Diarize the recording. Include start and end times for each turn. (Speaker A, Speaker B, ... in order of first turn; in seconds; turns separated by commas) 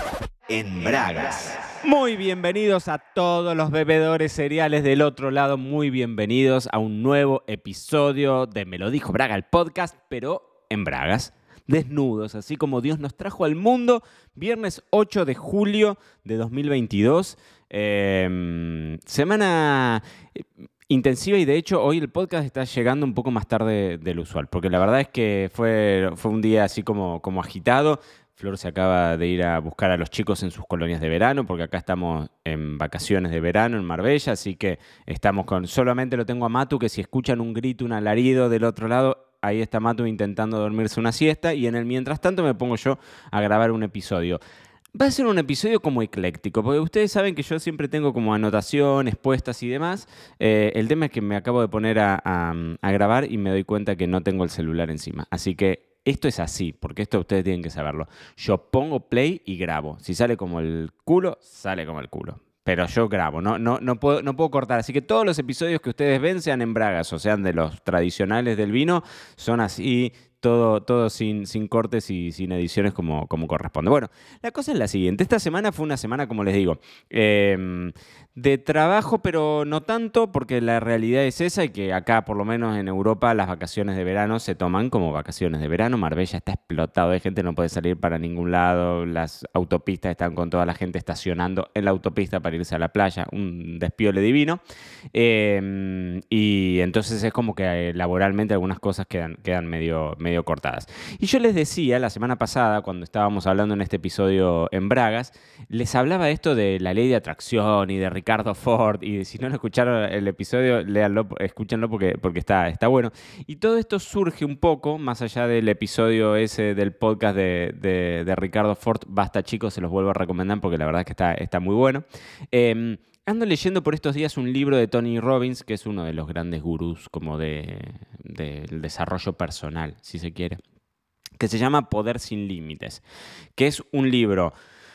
Speaker A: 0.5-20.0, Speaker A: 20.9-44.4, Speaker A: 45.0-94.6, Speaker A: 95.1-130.6, Speaker A: 131.4-133.0, Speaker A: 133.6-134.5